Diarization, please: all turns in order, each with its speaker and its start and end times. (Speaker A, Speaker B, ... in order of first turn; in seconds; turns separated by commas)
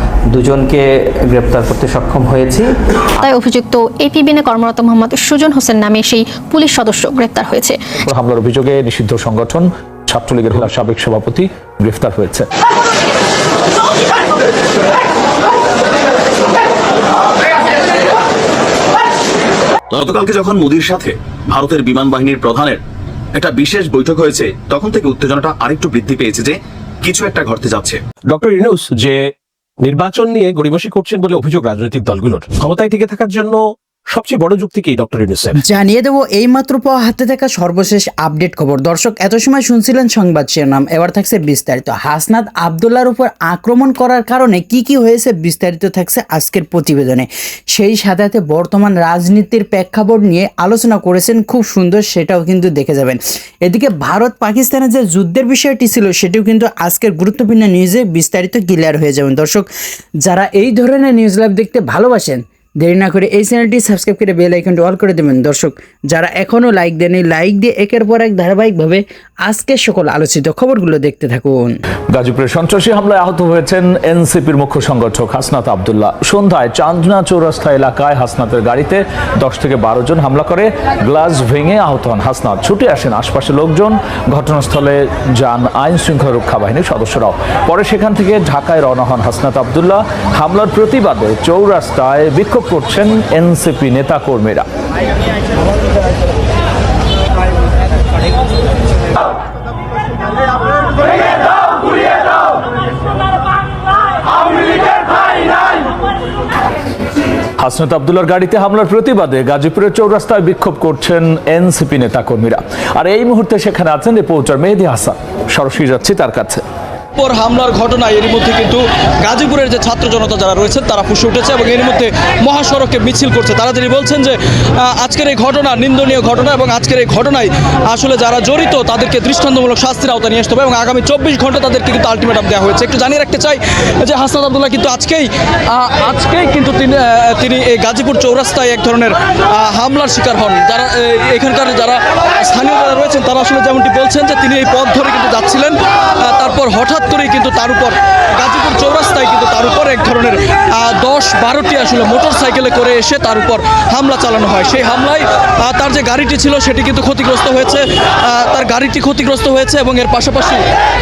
Speaker A: 0.3-2.7, Speaker B: 3.2-7.8, Speaker C: 8.1-12.5, Speaker D: 19.9-22.8, Speaker D: 23.4-28.0, Speaker E: 28.3-29.2, Speaker E: 29.8-33.6, Speaker E: 34.1-35.6, Speaker F: 35.6-59.7, Speaker F: 60.2-71.8, Speaker C: 72.1-94.7, Speaker C: 107.6-116.6, Speaker G: 117.2-160.6